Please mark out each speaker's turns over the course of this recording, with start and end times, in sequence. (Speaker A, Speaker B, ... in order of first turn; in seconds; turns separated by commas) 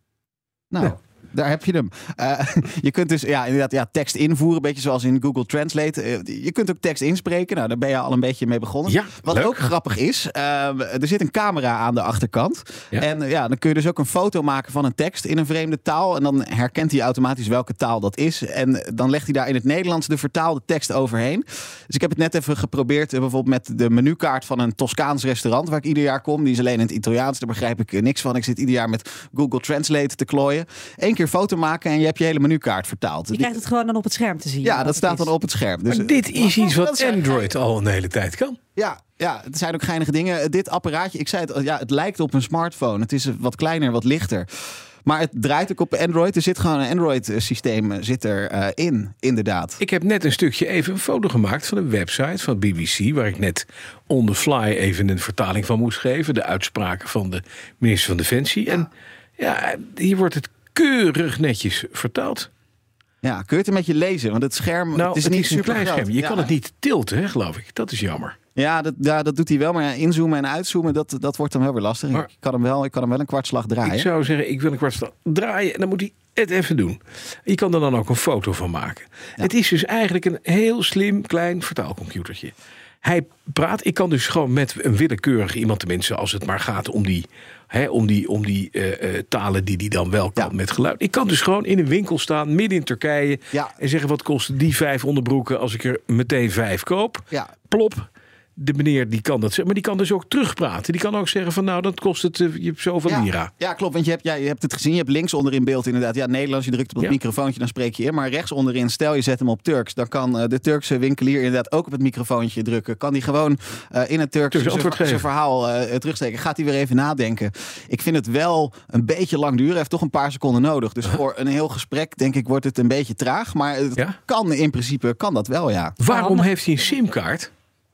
Speaker A: 0.7-33.6, Speaker B: 8.9-9.7, Speaker C: 33.3-35.3, Speaker A: 34.6-37.5, Speaker B: 35.9-38.6, Speaker A: 38.8-44.5, Speaker A: 45.0-49.8, Speaker B: 49.8-62.5, Speaker A: 63.2-66.5, Speaker B: 65.0-68.4, Speaker A: 68.6-74.1, Speaker B: 73.8-103.5, Speaker A: 103.1-126.0, Speaker B: 114.5-115.3, Speaker B: 126.0-127.5, Speaker C: 126.1-126.5